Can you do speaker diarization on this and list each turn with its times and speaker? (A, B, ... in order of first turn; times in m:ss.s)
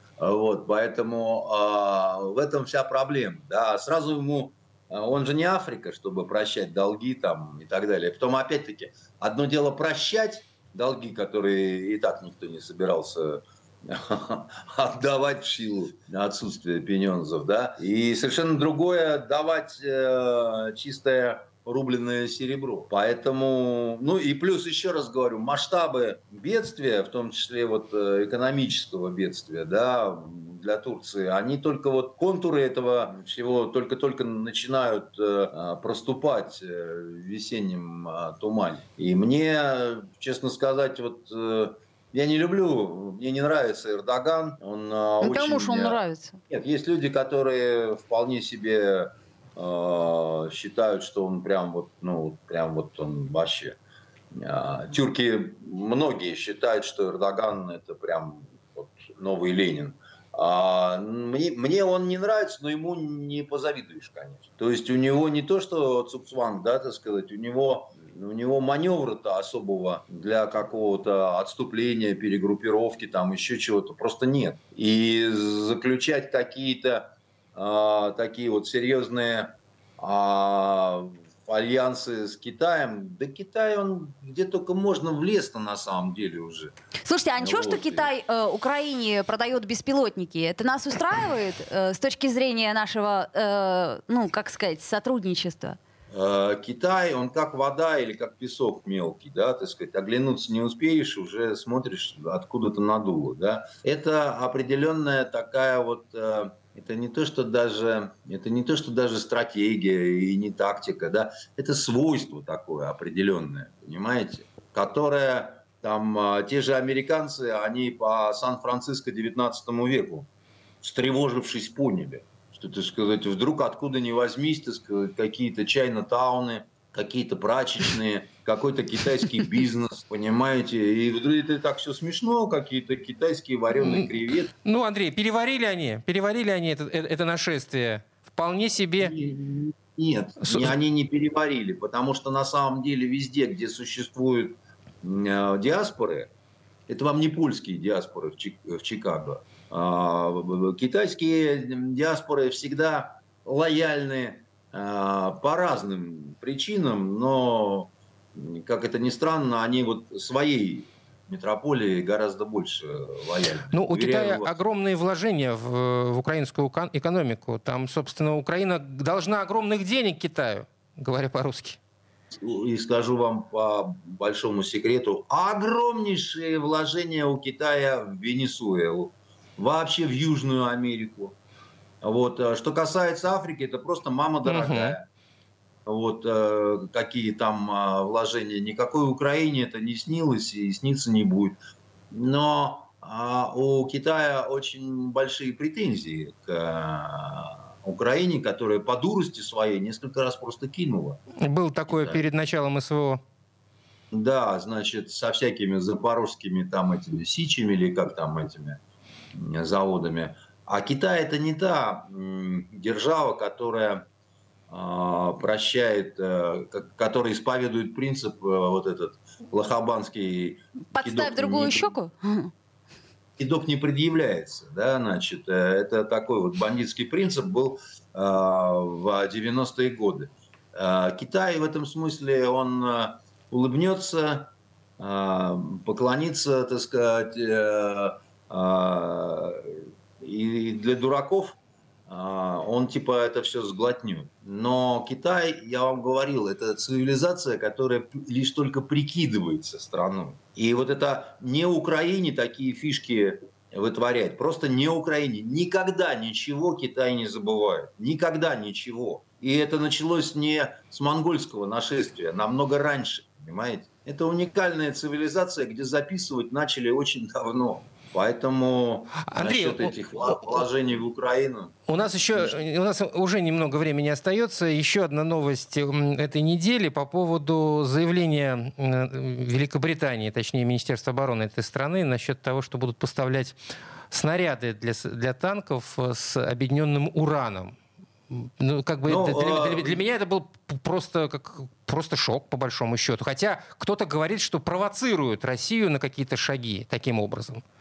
0:00.2-0:46.0 A
0:45.2-0:46.4 B
0:46.5-0:53.8 A
0:54.3-1:26.7 A
1:27.0-1:35.8 B
1:27.4-1:28.1 A
1:36.1-2:00.3 A
2:00.8-2:14.5 A
2:13.7-2:19.1 C
2:19.0-2:26.3 A
2:20.4-2:20.7 C
2:26.9-2:44.5 A
2:43.7-2:51.8 C
2:52.4-3:01.4 A
3:02.0-3:05.1 A
3:04.4-3:05.0 C
3:05.8-3:11.6 A
3:12.1-3:21.2 A
3:21.4-3:23.2 C
3:21.9-3:22.2 A
3:24.1-3:28.8 A
3:29.3-3:34.0 A
3:34.7-3:41.9 A
3:40.9-3:42.5 B
3:43.4-4:01.6 A
4:02.1-4:32.6 A
4:29.3-4:30.6 C
4:31.9-4:43.6 C
4:44.1-4:47.7 C
4:48.3-4:57.6 C
4:49.1-4:50.0 A